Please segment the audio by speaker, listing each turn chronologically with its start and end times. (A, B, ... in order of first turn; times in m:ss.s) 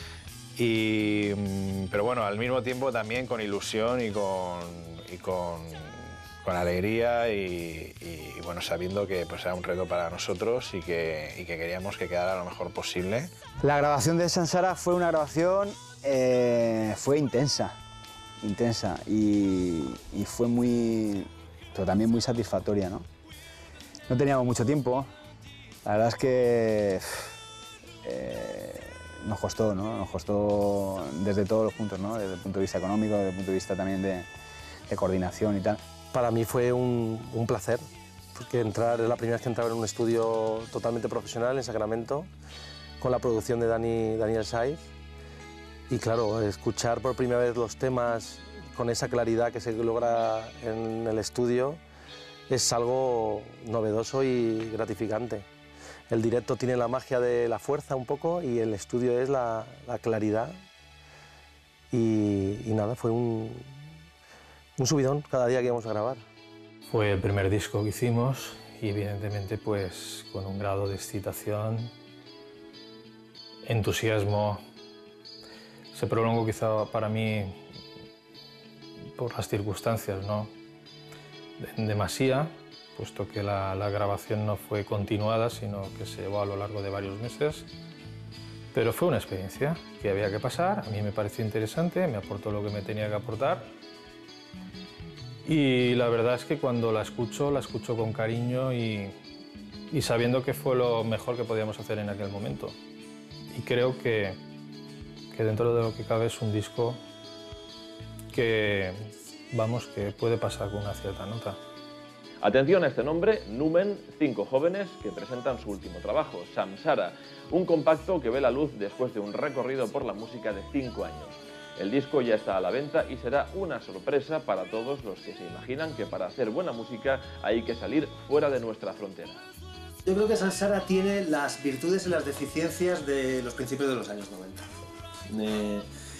0:00.6-0:13.3 A
0:13.6-0:17.8 B
0:18.4-0:23.1 B
0:24.1-0:25.1 B
0:25.8-0:27.3 B
0:28.0-0:34.3 B
0:34.9-0:35.8 B
0:36.1-0:42.3 C
0:43.0-0:44.9 C
0:45.9-0:51.8 C
0:52.5-0:55.5 C
0:56.1-1:00.6 C
1:01.9-1:03.8 C
1:04.8-1:06.2 C
1:06.9-1:11.9 D
1:13.6-1:14.6 D
1:15.9-1:17.6 D
1:19.2-1:20.5 D
1:21.6-1:27.7 D
1:28.7-1:33.7 D
1:35.4-1:39.1 D
1:39.9-1:42.8 D
1:43.5-1:44.4 D
1:45.3-1:47.0 D
1:48.3-1:51.6 D
1:52.4-2:09.4 E
2:10.0-2:14.6 F
2:15.3-2:15.9 F